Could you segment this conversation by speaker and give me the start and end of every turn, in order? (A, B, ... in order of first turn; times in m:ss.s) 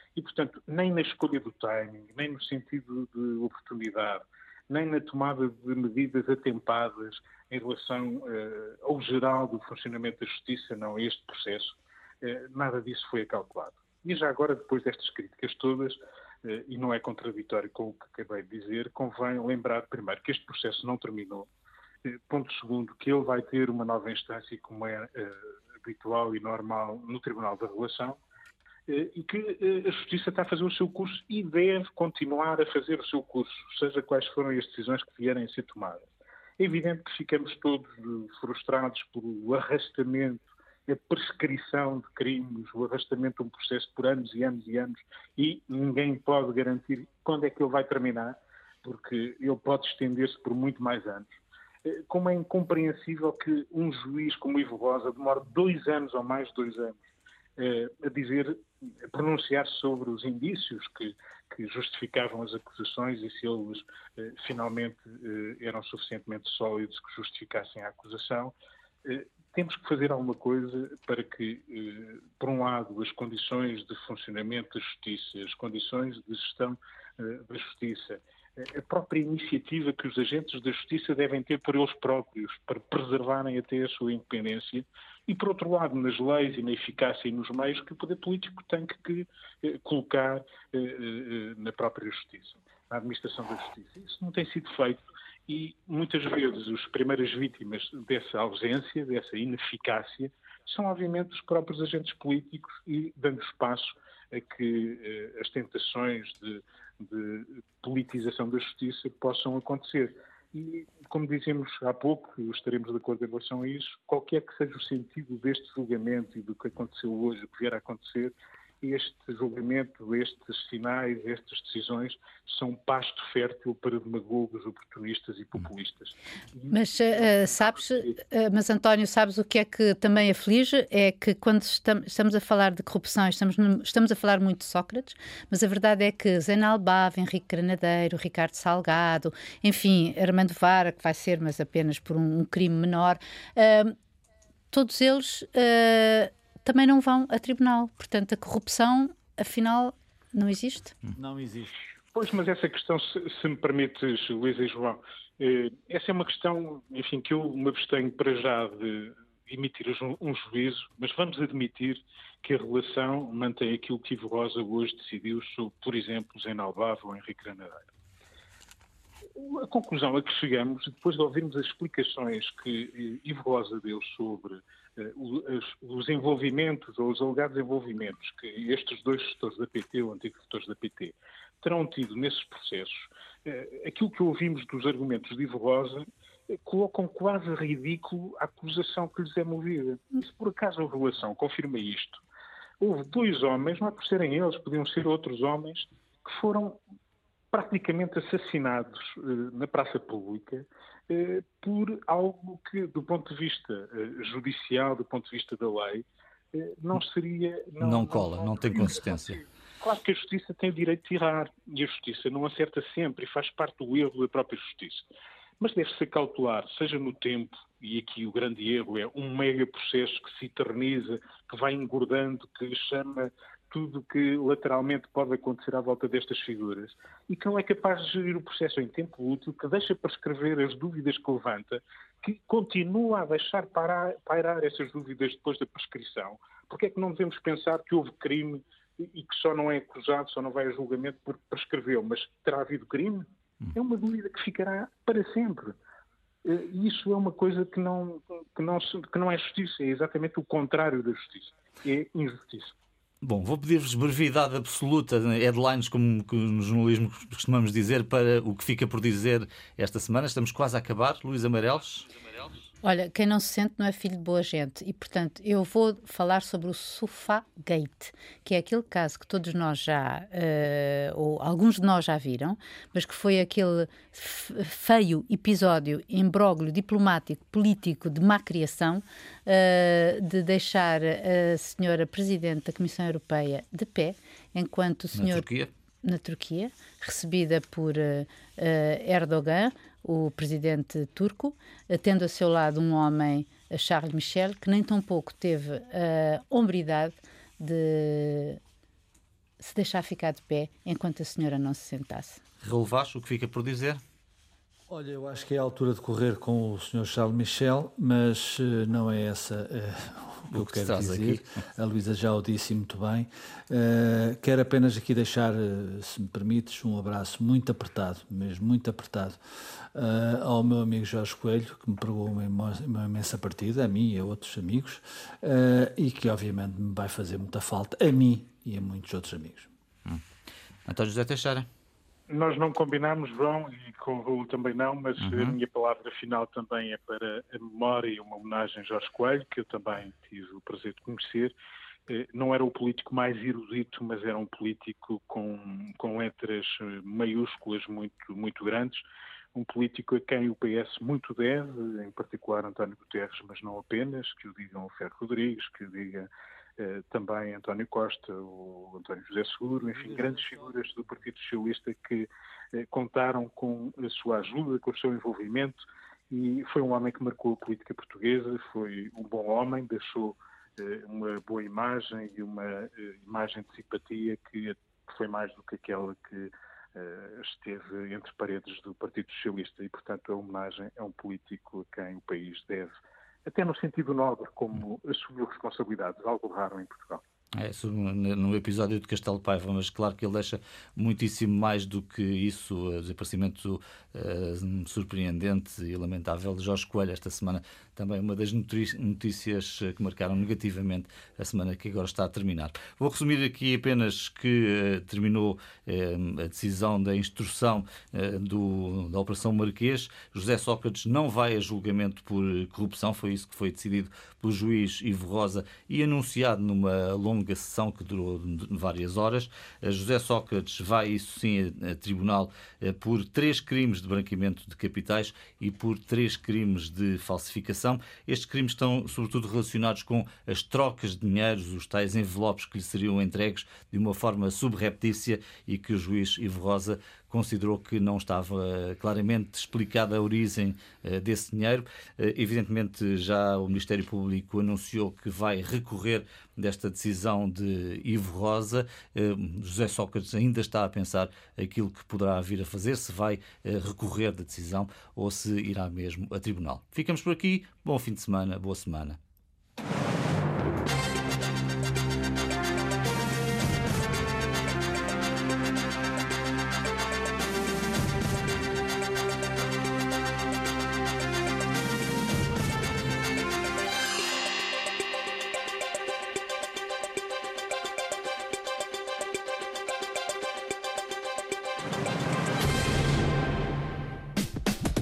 0:00.2-0:21.5 A
0:22.0-0:28.2 A
0:28.9-0:36.1 A
0:36.6-0:51.3 A
0:51.8-0:57.0 A
0:57.6-0:58.6 A
0:59.1-1:08.5 A
1:09.0-2:06.7 A
2:06.7-2:23.9 B
2:24.7-2:30.9 B
2:31.1-2:31.8 C
2:32.1-2:47.9 A
2:49.4-3:12.2 A
3:12.8-3:16.8 A
3:17.5-3:35.1 A
3:27.8-3:29.4 D
3:35.6-4:05.7 A
4:06.4-4:12.7 A
4:13.2-4:22.1 D
4:22.8-4:45.5 B
4:45.1-4:45.7 D
4:46.0-4:58.6 B
4:59.6-5:02.4 B
5:02.6-5:04.0 D
5:04.9-5:19.4 C
5:10.5-5:11.4 D
5:19.9-5:29.7 C
5:30.8-5:31.7 D
5:32.3-5:41.5 A
5:35.2-5:35.5 D
5:42.1-5:49.0 A
5:49.5-6:22.9 A
6:00.0-6:00.8 C
6:23.4-6:27.2 A
6:27.5-7:39.2 D